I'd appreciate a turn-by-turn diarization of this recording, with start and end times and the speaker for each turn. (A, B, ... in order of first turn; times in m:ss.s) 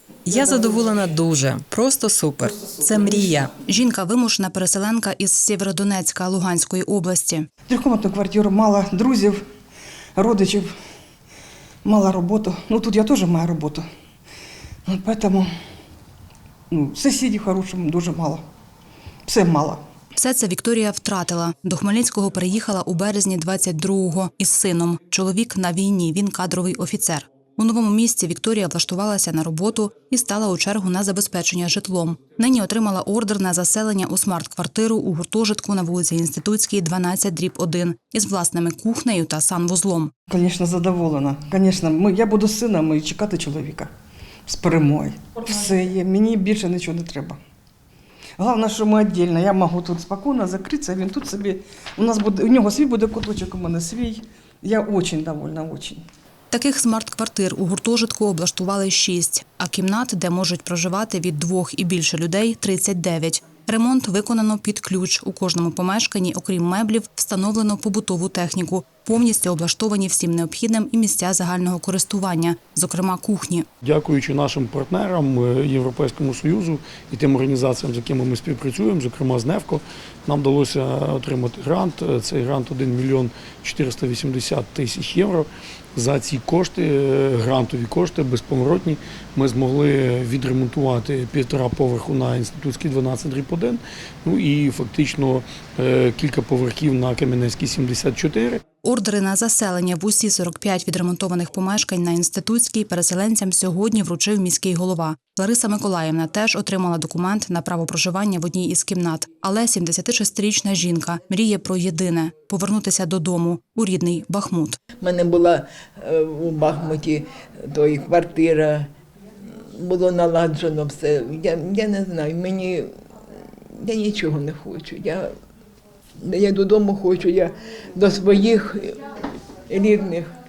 0:00.2-0:03.5 A
0:03.6-0:07.5 B
0:07.7-0:09.4 C
0:10.2-0:10.7 C
0:11.8-0:13.9 C
0:14.9-0:15.5 C
0:16.7-0:18.4 C
0:19.3-0:19.8 C
0:20.2-0:40.1 B
0:40.3-0:43.9 C
0:44.5-0:47.4 C
0:48.4-0:56.0 C
0:56.5-1:13.7 B
1:13.8-1:38.6 D
1:38.8-1:54.8 B
1:55.0-1:58.9 E
1:59.7-2:02.9 E
2:03.8-2:05.3 E
2:06.2-2:09.0 E
2:09.7-2:10.3 E